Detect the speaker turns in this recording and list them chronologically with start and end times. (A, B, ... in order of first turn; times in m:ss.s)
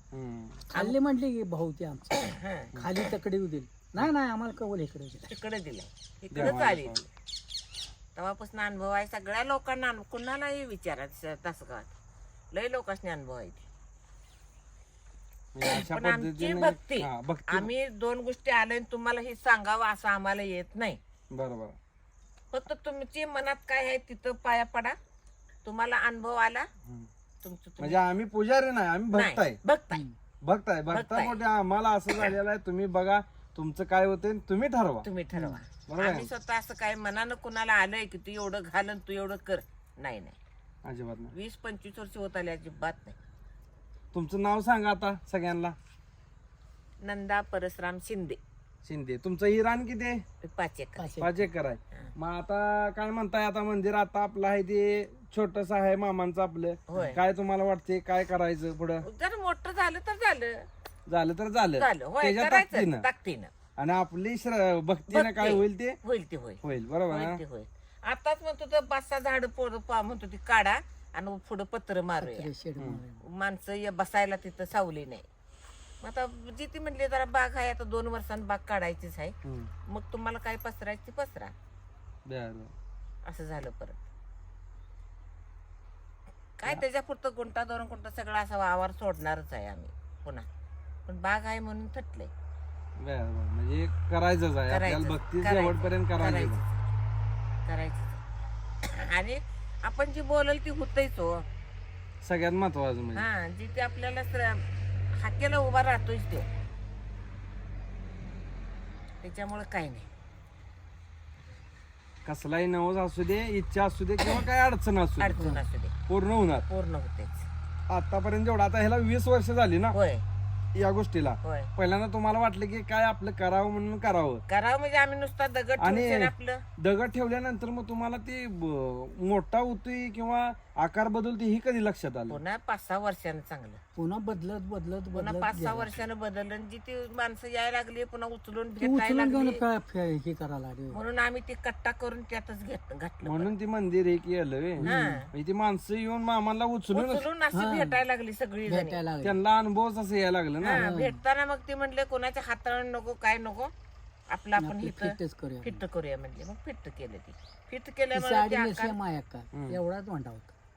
0:00.3-0:00.7 A
0:00.7-0:05.3 B
0:02.2-0:02.8 C
0:05.3-0:07.1 C
0:06.4-0:06.9 A
0:08.2-0:11.9 C
0:12.5-0:13.6 C
0:15.6-0:17.7 A
0:15.6-0:21.0 C
0:21.4-0:21.8 A
0:22.5-0:25.0 C
0:25.6-0:26.7 C
0:27.4-0:28.0 C
0:27.8-0:29.6 A
0:29.1-0:30.0 C
0:30.4-0:35.1 A
0:30.9-0:31.4 C
0:35.0-0:40.4 C
0:35.9-0:36.3 A
0:40.9-0:41.3 A
0:41.3-0:43.2 C
0:44.1-0:45.8 A
0:47.0-0:48.4 C
0:48.9-0:50.2 A
0:50.4-0:51.1 C
0:51.0-0:51.5 B
0:51.2-0:59.0 A
0:56.9-0:57.2 C
0:59.0-1:00.6 C
1:01.1-1:03.0 A
1:01.8-1:03.5 C
1:03.8-1:06.0 A
1:05.1-1:12.5 C
1:06.6-1:07.3 A
1:12.2-1:13.2 B
1:13.3-1:15.3 C
1:16.0-1:19.4 C
1:19.9-1:21.5 C
1:22.3-1:22.7 A
1:23.3-1:24.0 C
1:26.6-1:30.5 C
1:31.1-1:32.3 C
1:33.0-1:36.6 A
1:34.7-1:36.8 C
1:37.7-1:38.2 C
1:38.8-1:41.5 C
1:42.2-1:43.2 A
1:43.2-1:44.6 C
1:45.2-1:46.5 C
1:49.2-1:50.1 C
1:52.2-1:55.4 A
1:55.2-1:55.9 C
1:55.4-1:55.6 B
1:56.1-1:56.7 A
1:56.7-1:57.5 C
1:57.9-1:59.9 A
2:00.0-2:00.2 C
2:00.8-2:04.4 A
2:01.4-2:01.7 C
2:04.5-2:06.6 C
2:05.8-2:06.3 A
2:06.8-2:12.4 A
2:12.3-2:13.8 C
2:14.0-2:16.0 B
2:15.1-2:19.6 C
2:18.8-2:21.0 B
2:20.9-2:23.5 C
2:23.5-2:27.3 A
2:24.8-2:25.2 B
2:24.8-2:25.3 C
2:26.9-2:29.0 C
2:27.5-2:28.0 B
2:28.7-2:29.4 B
2:29.2-2:30.9 A
2:30.6-2:33.7 C
2:30.8-2:31.2 B
2:34.3-2:39.0 C
2:34.6-2:35.8 B
2:38.1-2:40.5 B